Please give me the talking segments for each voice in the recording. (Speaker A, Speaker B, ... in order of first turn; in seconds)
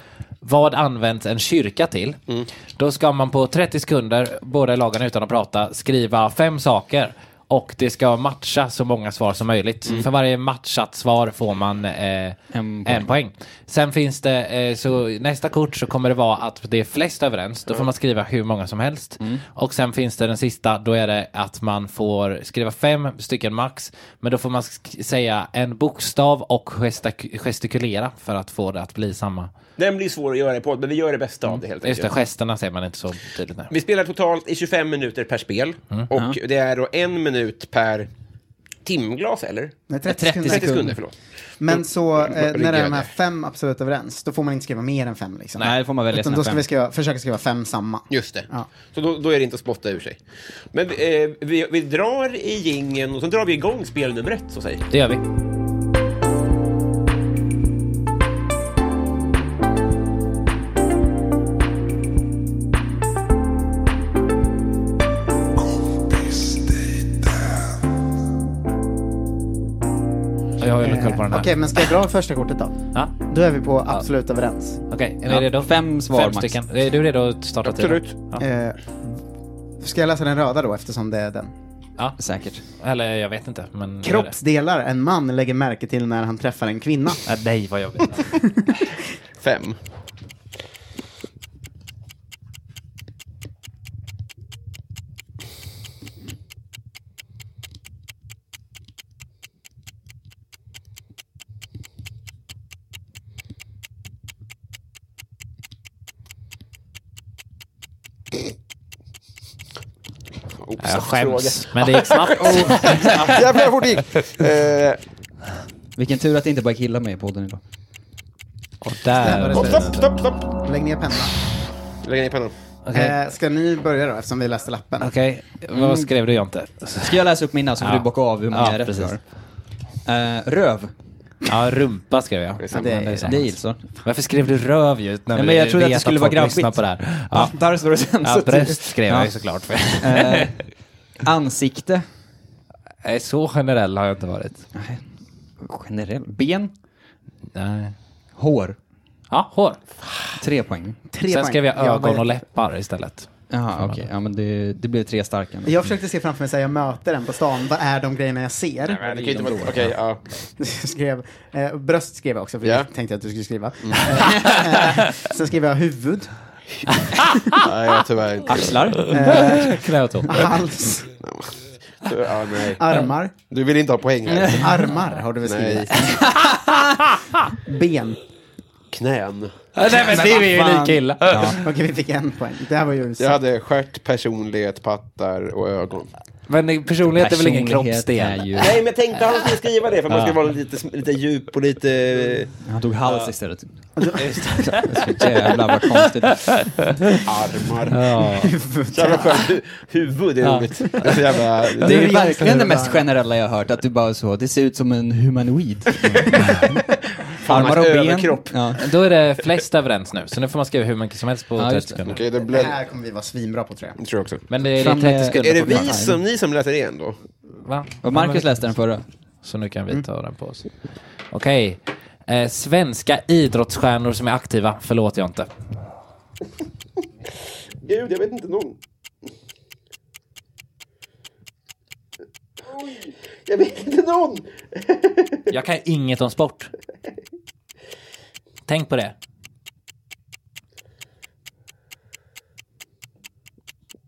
Speaker A: 0.4-2.2, 2.8-29.5, 31.6-33.7, 54.9-55.2, 70.6-71.5, 74.9-78.5, 82.8-84.3, 87.3-88.4, 110.8-113.8, 118.8-120.1, 122.9-123.2, 125.0-127.2, 127.8-129.2, 131.5-137.6, 138.2-140.5, 143.0-144.7, 147.6-147.9, 149.3-149.8, 151.3-154.1, 167.0-167.4, 169.1-170.3, 179.8-181.7, 186.5-188.8, 190.1-190.4, 193.1-193.3, 194.2-195.2, 197.9-198.5, 200.4-201.3, 207.5-207.8, 208.8-212.2, 214.5-216.0, 217.6-218.7, 219.4-220.7, 221.3-225.5, 235.5-236.7, 238.7-239.2
Speaker B: 12.5-13.1, 36.1-36.4, 40.1-41.0, 45.6-46.6, 75.3-76.6, 82.2-82.6, 112.4-113.2, 116.0-117.6, 125.7-126.1, 127.0-129.2, 130.1-130.9, 133.2-133.9, 135.3-139.3, 140.0-140.7, 141.2-142.0, 144.8-145.0, 145.6-146.7, 148.3-148.8, 150.4-151.0, 153.5-155.8, 159.1-159.7, 168.5-169.2, 174.3-174.9, 180.0-181.6, 187.2-188.8, 192.7-193.8, 194.9-196.4, 201.8-206.6, 207.4-208.8, 211.6-212.0, 214.8-216.2, 218.0-219.1
Speaker C: 29.8-32.1, 33.7-38.1, 38.9-39.8, 40.4-41.1, 41.6-43.1, 48.1-50.2, 50.7-54.9, 77.6-78.2, 89.4-89.8, 110.6-115.0, 119.5-120.5, 122.0-122.5, 132.6-132.9, 158.9-160.2, 162.6-162.9, 167.6-168.9, 171.2-172.8, 173.4-174.8, 175.4-176.0, 178.9-179.6, 183.2-186.1, 188.6-192.6, 197.3-198.2, 198.9-202.6, 207.5-208.8, 212.1-212.8, 214.0-214.4, 215.4-217.2, 227.8-228.8, 232.6-235.5
Speaker D: 39.9-40.7, 41.6-48.7, 70.8-74.8, 78.4-79.2, 79.8-81.5, 84.0-87.2, 88.4-89.0, 119.2-121.3, 122.9-125.1, 132.7-133.4, 151.1-152.4, 155.7-159.8, 160.6-166.4, 169.1-171.1, 172.8-173.3, 174.5-176.4, 177.7-178.2, 181.6-183.4, 194.0-194.8, 198.4-199.3, 201.8-203.1, 212.4-214.0